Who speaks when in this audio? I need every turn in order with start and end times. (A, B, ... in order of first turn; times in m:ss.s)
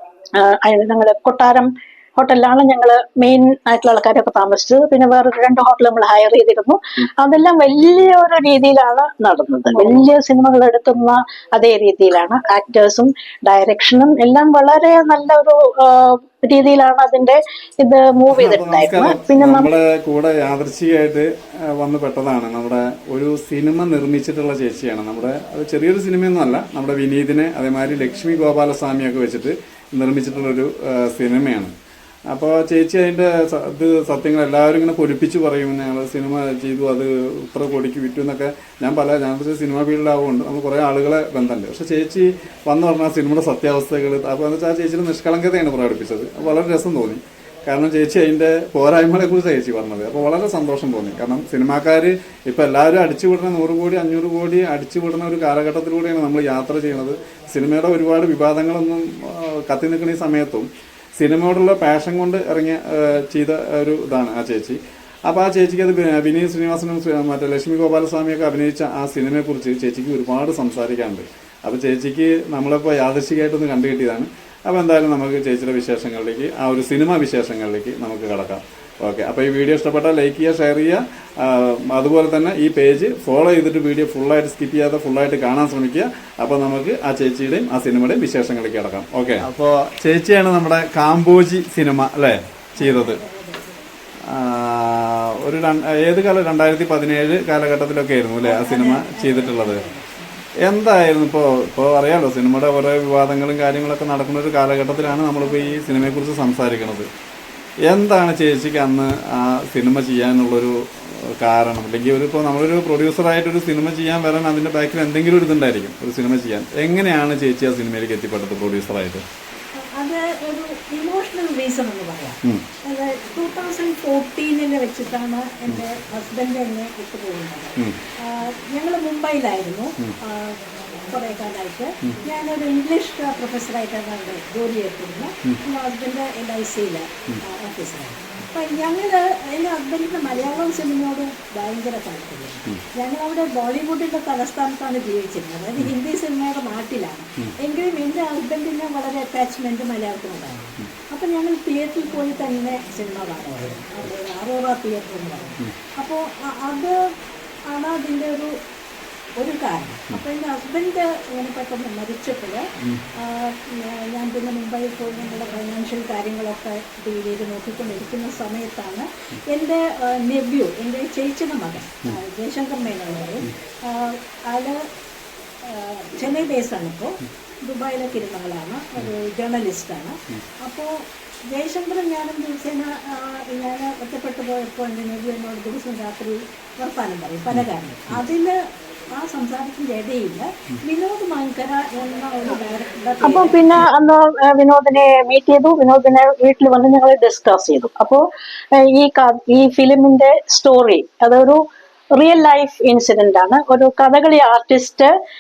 0:00.4-0:19.7 A
0:18.3-0:31.7 B
0:32.3-1:00.7 B
1:01.2-1:33.2 B
1:32.8-1:33.8 C
1:34.3-1:39.8 B
1:38.4-1:40.4 C
1:40.6-1:47.1 B
1:47.9-1:59.2 B
1:59.8-2:37.0 C
2:37.7-2:38.6 C
2:39.4-2:42.7 C
2:43.2-2:54.8 C
2:55.6-3:01.0 C
3:01.5-3:08.6 C
3:07.5-3:08.2 B
3:09.1-3:13.6 C
3:13.2-3:18.2 A
3:18.8-3:21.6 A
3:22.2-3:25.1 A